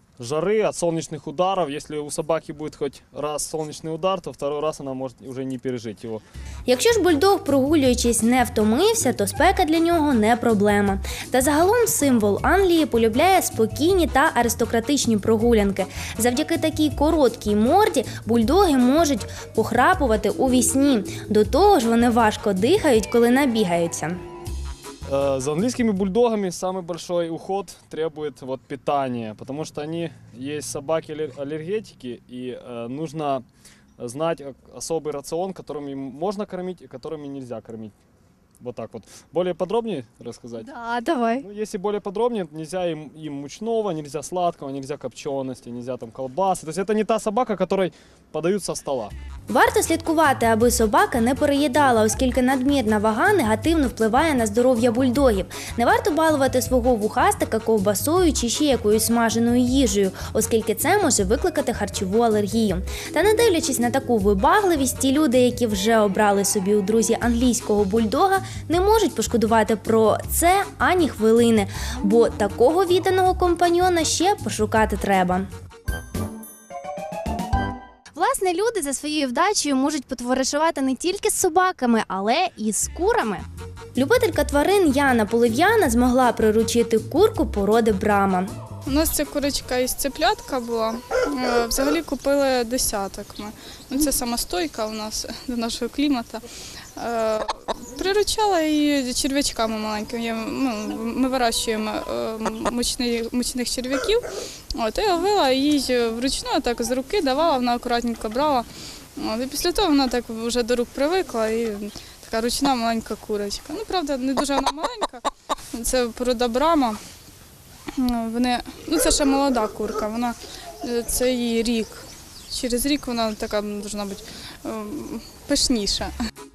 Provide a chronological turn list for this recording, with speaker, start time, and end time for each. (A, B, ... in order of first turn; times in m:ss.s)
0:00.2-0:06.2 A
0:06.7-0:24.2 B
0:25.1-0:33.4 A
0:34.0-0:37.9 A
0:38.6-0:40.7 A
0:40.6-0:41.4 C
0:41.4-0:49.1 A
0:49.5-1:15.5 B
1:18.2-1:23.4 C
1:23.9-1:28.5 B
1:28.9-1:36.4 D
1:37.0-1:57.0 D
1:58.0-2:06.1 D